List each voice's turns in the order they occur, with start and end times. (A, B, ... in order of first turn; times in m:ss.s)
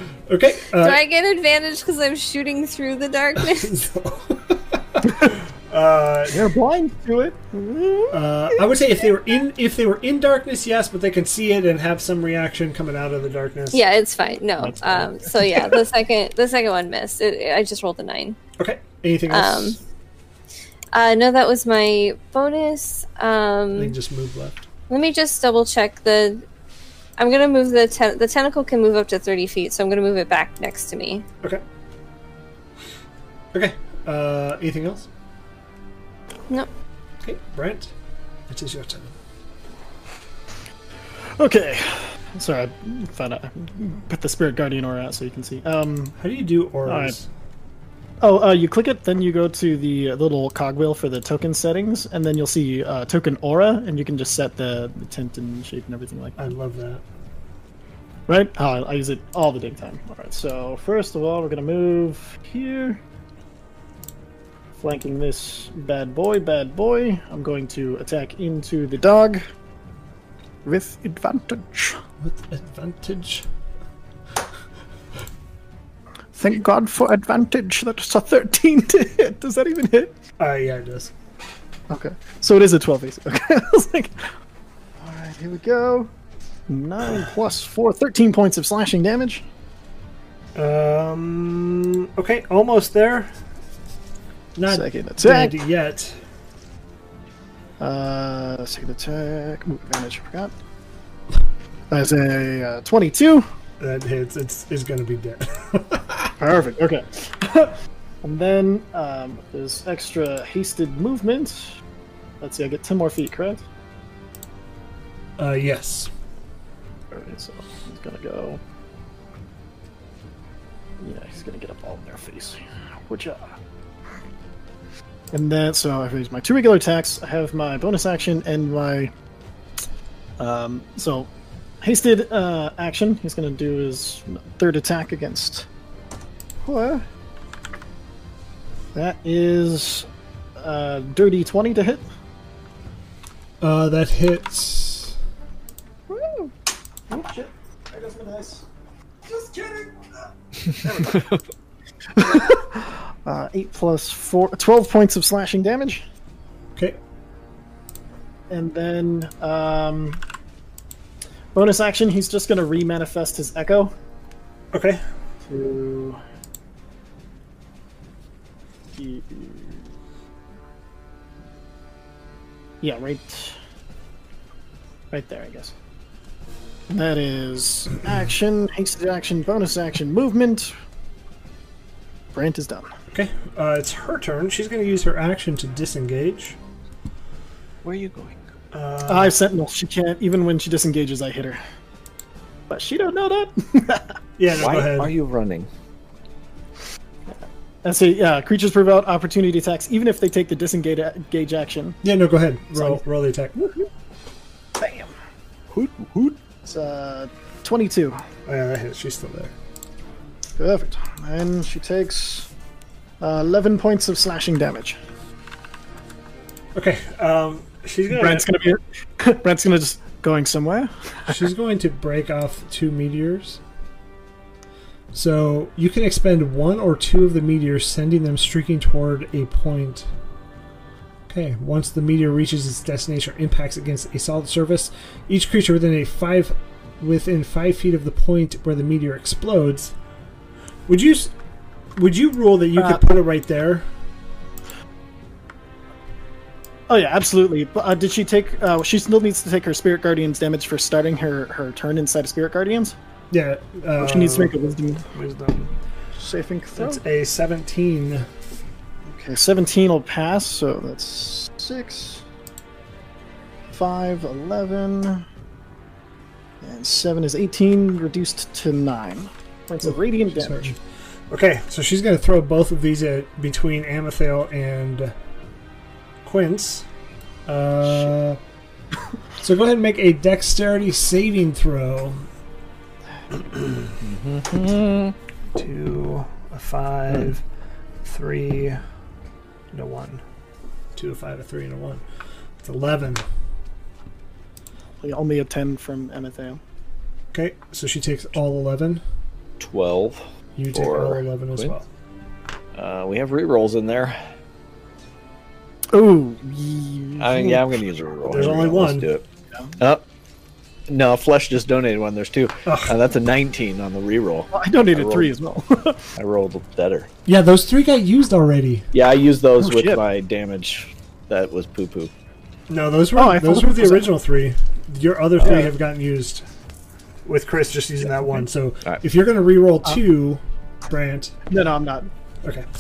0:00.3-0:01.0 A
0:00.8-0:03.8 B
0:03.4-0:06.5 A
0:06.3-0:08.2 C
0:08.1-0:13.8 A
0:13.7-0:18.4 B
0:14.6-0:15.8 C
0:18.6-0:19.8 A
0:19.3-0:19.8 B
0:20.9-0:24.0 B
0:23.8-0:24.6 A
0:24.9-0:26.4 B
0:27.2-0:31.2 B
0:33.5-0:35.1 A
0:37.2-0:37.9 A
0:38.5-0:39.1 A
0:41.4-0:46.2 C
0:46.2-0:47.3 A
0:46.9-0:47.2 C
0:48.2-0:56.5 C
0:56.4-0:57.0 A
0:58.3-1:03.0 C
1:04.8-1:09.4 C
1:10.6-1:12.0 C
1:12.2-1:13.4 A
1:16.3-1:20.2 C
1:20.4-1:21.1 A
1:21.9-1:24.3 C
1:25.0-1:26.1 C
1:26.7-1:29.4 C
1:30.6-1:33.3 A
1:34.6-1:36.2 A
1:34.7-1:35.6 C
1:37.8-1:40.5 C
1:41.9-1:43.5 C
1:43.8-1:46.3 A
1:46.4-1:51.7 C
1:52.4-1:53.6 C
1:55.4-1:56.1 A
1:57.1-1:58.6 C
2:01.0-2:03.5 C
2:05.3-2:09.1 C
2:10.4-2:11.3 C
2:11.8-2:15.7 C
2:16.6-2:17.0 C
2:18.9-2:20.1 C
2:20.6-2:22.0 C
2:23.6-2:25.2 A
2:26.1-2:26.5 C
2:27.1-2:28.6 C
2:29.2-2:31.3 C
2:31.1-2:31.4 D
2:32.2-2:36.0 C
2:38.5-2:40.2 C
2:41.5-2:43.9 C
2:44.7-2:45.0 A
2:45.5-2:46.2 C
2:48.9-2:49.9 C
2:52.8-2:53.6 C
2:55.1-2:55.7 C
2:56.9-3:00.7 C
3:02.3-3:02.9 C
3:03.1-3:06.6 A
3:07.8-3:08.4 D
3:08.7-3:09.4 A
3:09.1-3:11.6 C
3:12.7-3:14.2 C
3:14.4-3:15.1 A
3:14.5-3:15.7 D
3:17.3-3:22.0 C
3:22.0-3:23.6 A
3:23.6-3:23.9 C
3:24.8-3:25.1 C
3:25.7-3:26.4 D
3:26.6-3:28.2 C
3:28.5-3:29.5 A
3:30.6-3:32.5 C
3:33.2-3:35.0 C
3:36.8-3:38.5 A
3:38.1-3:41.4 C
3:41.3-3:43.6 A
3:45.1-3:50.1 A
3:51.3-3:59.9 A
4:00.9-4:01.3 A
4:02.0-4:03.9 A
4:02.8-4:03.0 C
4:06.9-4:13.0 C
4:13.3-4:14.6 A
4:14.0-4:15.0 C
4:15.1-4:15.7 A
4:16.2-4:17.0 C
4:16.8-4:18.3 A
4:19.1-4:22.2 C
4:23.7-4:25.2 C
4:26.6-4:30.7 C
4:29.8-4:30.8 A
4:31.3-4:35.1 A
4:36.2-4:36.9 A
4:37.5-4:38.4 A
4:39.4-4:42.3 A
4:44.0-4:45.2 D
4:45.6-4:47.4 A
4:48.0-4:48.8 A
4:49.7-4:50.2 A
4:51.0-4:52.0 A
4:52.6-4:53.2 A
4:55.0-4:56.6 C
4:57.3-4:59.0 A
4:59.6-5:01.7 D
5:00.6-5:01.9 A
5:02.7-5:04.2 D
5:05.9-5:07.7 C
5:07.2-5:09.2 D
5:08.3-5:09.1 A
5:09.8-5:10.0 D
5:10.9-5:15.3 D
5:12.7-5:12.9 A
5:14.5-5:16.1 C
5:16.2-5:17.1 D
5:17.3-5:18.9 A
5:18.9-5:22.1 D
5:19.6-5:20.0 C
5:22.7-5:26.4 A
5:23.2-5:24.1 C
5:25.4-5:25.7 C
5:27.3-5:31.4 A
5:31.5-5:32.1 C